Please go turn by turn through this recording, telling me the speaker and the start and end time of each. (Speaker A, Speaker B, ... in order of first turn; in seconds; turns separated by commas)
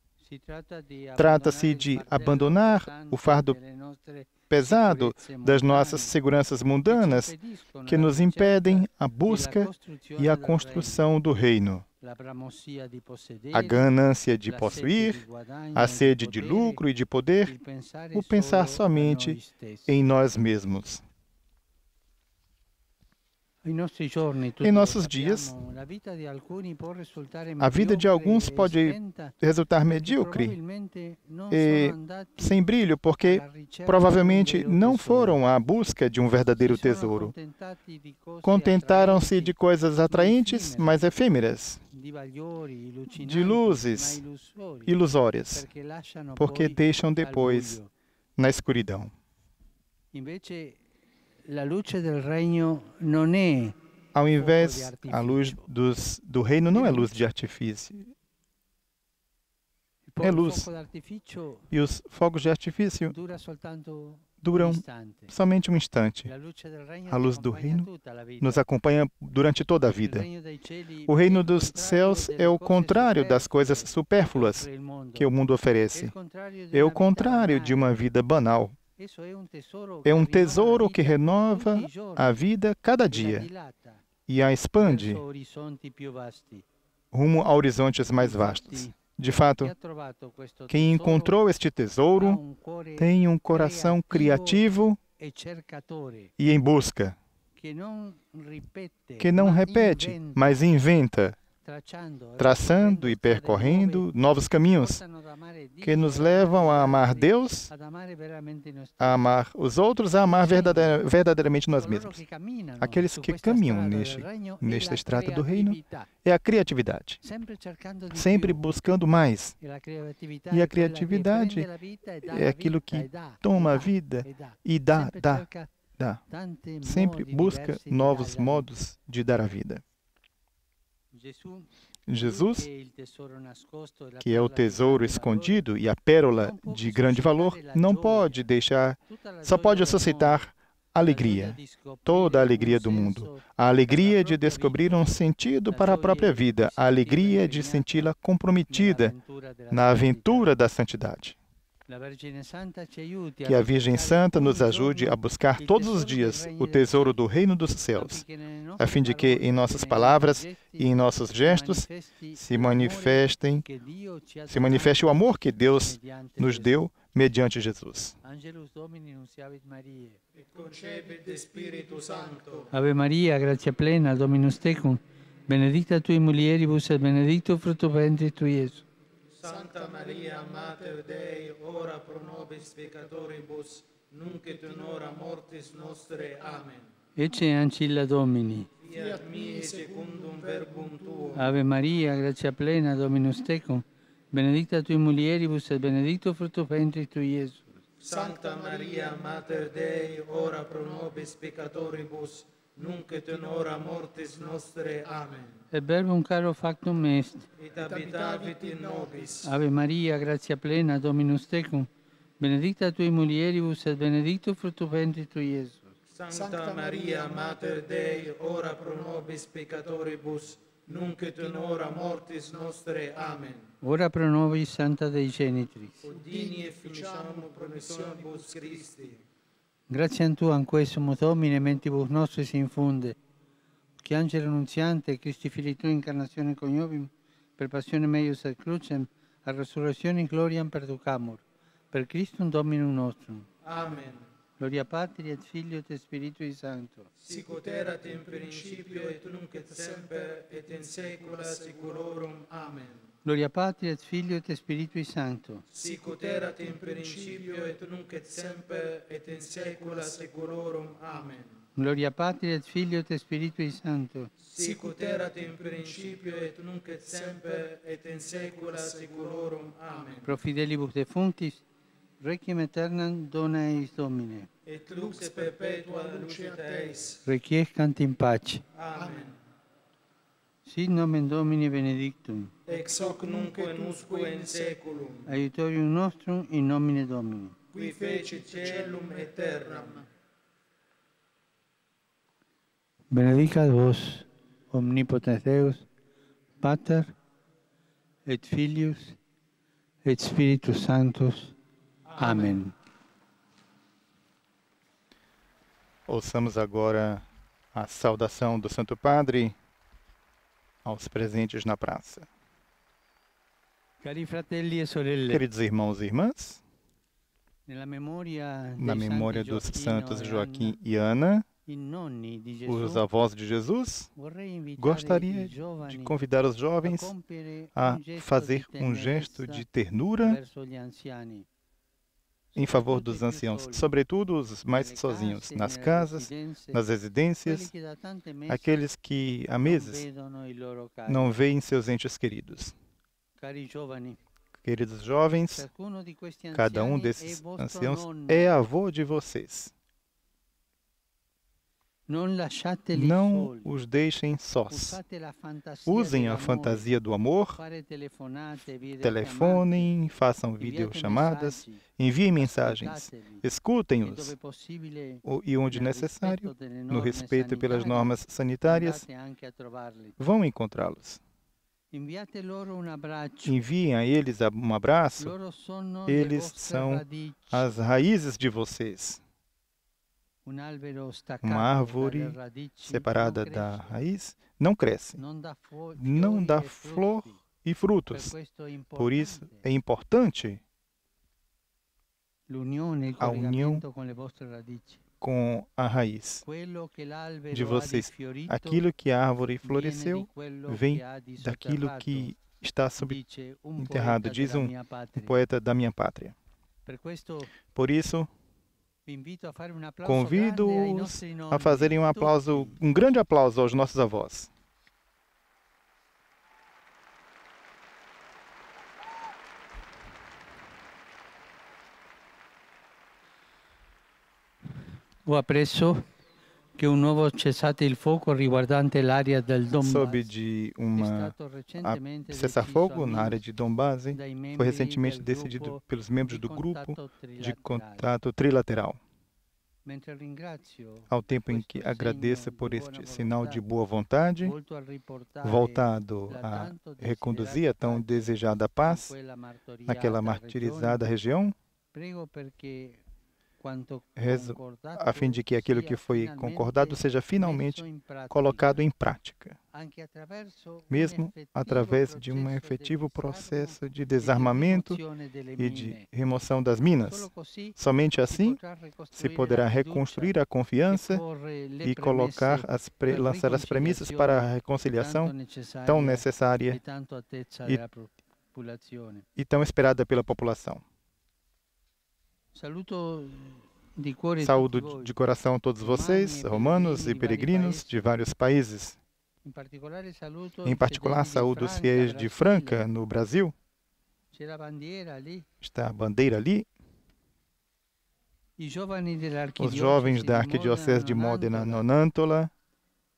Speaker A: 0.2-6.2, Speaker B: 1.2-3.5, Speaker B: 4.5-7.3, Speaker A: 6.9-11.1, Speaker B: 7.8-11.8, Speaker A: 12.0-13.9, Speaker B: 13.5-15.2, Speaker A: 14.4-16.8, Speaker B: 15.7-17.5, Speaker A: 17.4-19.9, Speaker B: 18.1-21.0, Speaker A: 23.6-32.6, Speaker B: 24.6-25.5, Speaker B: 27.6-30.6, Speaker B: 31.5-37.3, Speaker A: 33.1-35.4, Speaker A: 36.6-39.5, Speaker B: 38.4-41.8, Speaker A: 40.1-41.1, Speaker A: 41.9-45.0, Speaker B: 43.2-44.2, Speaker B: 44.9-45.7, Speaker A: 45.5-47.9, Speaker B: 46.4-47.8, Speaker B: 48.4-49.1, Speaker A: 50.1-50.8, Speaker A: 51.5-53.8, Speaker B: 54.1-58.1, Speaker A: 54.4-55.6, Speaker A: 56.7-57.1, Speaker A: 60.1-61.7, Speaker B: 60.2-60.7, Speaker B: 61.7-63.1, Speaker A: 63.1-65.3, Speaker B: 64.4-66.3, Speaker A: 66.2-68.6, Speaker B: 67.1-67.9, Speaker B: 68.4-70.3, Speaker A: 69.9-75.3, Speaker B: 71.1-76.1, Speaker A: 75.9-77.9, Speaker B: 76.7-78.8, Speaker A: 79.0-82.4, Speaker B: 80.0-83.5, Speaker A: 83.1-84.0, Speaker B: 84.3-85.2, Speaker A: 84.8-86.7, Speaker B: 87.1-89.7, Speaker A: 88.1-89.0, Speaker A: 89.6-91.4, Speaker B: 90.7-92.4, Speaker A: 92.2-94.6, Speaker B: 93.0-95.0, Speaker A: 95.2-96.3, Speaker B: 96.4-97.2, Speaker A: 97.5-100.6, Speaker B: 99.2-101.4, Speaker A: 101.6-104.1, Speaker B: 102.4-105.0, Speaker A: 104.6-109.3, Speaker B: 105.8-107.7, Speaker B: 109.0-112.2, Speaker A: 110.2-111.0, Speaker A: 111.7-116.1, Speaker B: 112.8-117.2, Speaker A: 117.2-118.8, Speaker B: 118.1-119.5, Speaker A: 119.6-125.7, Speaker B: 120.5-121.7, Speaker B: 122.2-125.5, Speaker A: 126.3-128.7, Speaker B: 126.8-129.8, Speaker A: 131.1-135.6, Speaker B: 132.1-132.7, Speaker B: 134.2-149.1, Speaker A: 136.3-138.5, Speaker A: 139.1-140.4, Speaker A: 141.0-145.1, Speaker A: 145.7-148.1, Speaker A: 148.7-150.6, Speaker B: 149.7-151.4, Speaker A: 151.9-157.2, Speaker B: 153.4-158.2, Speaker A: 157.9-166.9, Speaker B: 158.8-163.6, Speaker B: 164.5-168.2, Speaker A: 168.2-170.2, Speaker C: 170.4-172.7, Speaker A: 172.7-178.8, Speaker C: 179.3-186.9, Speaker A: 187.2-188.7, Speaker C: 188.8-191.5, Speaker A: 191.3-197.8, Speaker C: 198.0-205.6, Speaker A: 205.7-207.5, Speaker C: 207.6-209.6, Speaker A: 209.4-211.9, Speaker A: 212.4-215.9, Speaker C: 216.1-223.7, Speaker A: 223.8-226.0, Speaker C: 226.0-229.2, Speaker A: 229.9-233.2, Speaker A: 234.0-243.5, Speaker C: 243.6-244.2, Speaker A: 244.6-247.1, Speaker C: 247.2-253.0, Speaker A: 253.2-255.6, Speaker C: 255.7-261.5, Speaker A: 261.7-264.3, Speaker C: 264.4-270.3, Speaker A: 270.2-271.6, Speaker A: 272.2-274.5, Speaker C: 274.6-277.2, Speaker A: 277.2-278.6, Speaker C: 278.8-279.4, Speaker A: 280.6-282.5, Speaker C: 282.7-285.3, Speaker A: 285.2-287.6, Speaker C: 287.7-290.1, Speaker A: 293.1-295.9, Speaker A: 296.6-297.1, Speaker A: 298.2-299.2, Speaker A: 300.0-301.5, Speaker A: 302.1-302.7, Speaker B: 306.1-309.5, Speaker B: 310.8-312.3, Speaker A: 314.0-315.4, Speaker B: 315.3-316.6, Speaker A: 317.6-320.8, Speaker B: 318.8-321.4, Speaker A: 321.6-323.1, Speaker B: 322.7-324.1, Speaker A: 324.1-326.2, Speaker B: 324.8-327.1, Speaker A: 326.8-329.6, Speaker B: 327.8-330.4, Speaker A: 330.2-331.5, Speaker A: 332.5-333.9, Speaker B: 332.6-337.7, Speaker A: 334.7-336.8, Speaker A: 337.4-338.8, Speaker B: 338.5-340.0, Speaker A: 339.6-341.3, Speaker B: 341.1-342.7, Speaker A: 343.4-344.2, Speaker B: 344.5-345.6, Speaker A: 345.5-348.6, Speaker B: 346.5-349.7, Speaker A: 352.1-353.7, Speaker B: 352.9-355.0, Speaker A: 354.7-356.9, Speaker B: 355.9-357.6, Speaker A: 357.6-359.9, Speaker B: 359.0-364.3, Speaker A: 360.6-361.8, Speaker A: 362.4-363.4, Speaker A: 364.0-370.2, Speaker B: 365.2-369.0, Speaker B: 370.2-371.2, Speaker A: 371.9-373.6, Speaker B: 373.4-375.3, Speaker A: 375.2-377.7, Speaker B: 376.1-379.2, Speaker A: 380.4-384.0, Speaker B: 381.4-385.2, Speaker A: 385.2-387.4, Speaker B: 385.9-388.3, Speaker A: 388.1-389.6, Speaker B: 389.0-390.6, Speaker A: 392.5-395.0, Speaker B: 393.2-393.8, Speaker B: 395.2-396.4, Speaker A: 396.4-398.8, Speaker B: 397.5-403.2, Speaker A: 399.6-402.3, Speaker A: 403.0-405.3, Speaker B: 403.8-406.3, Speaker A: 406.9-407.6, Speaker B: 407.7-408.3, Speaker A: 409.1-412.8, Speaker B: 410.0-414.5, Speaker A: 425.2-426.0, Speaker A: 426.8-430.3, Speaker B: 429.8-439.0, Speaker A: 430.9-433.4, Speaker A: 434.1-438.1, Speaker A: 439.8-443.6, Speaker B: 441.1-444.5, Speaker A: 444.4-451.0, Speaker B: 445.4-449.1, Speaker B: 449.9-451.5, Speaker A: 451.9-453.0, Speaker A: 453.6-458.8, Speaker B: 454.2-459.6, Speaker A: 459.7-466.0, Speaker B: 460.9-465.0, Speaker B: 465.6-468.6, Speaker A: 467.0-470.3, Speaker B: 469.1-471.2, Speaker A: 470.9-479.2, Speaker B: 471.8-475.3, Speaker B: 475.9-476.8, Speaker B: 479.4-480.8, Speaker A: 482.5-485.1, Speaker B: 484.4-489.0, Speaker A: 485.8-487.9, Speaker A: 489.4-492.9, Speaker B: 490.6-493.5, Speaker A: 494.3-495.4, Speaker B: 495.6-496.7, Speaker A: 498.6-501.9, Speaker B: 499.6-502.5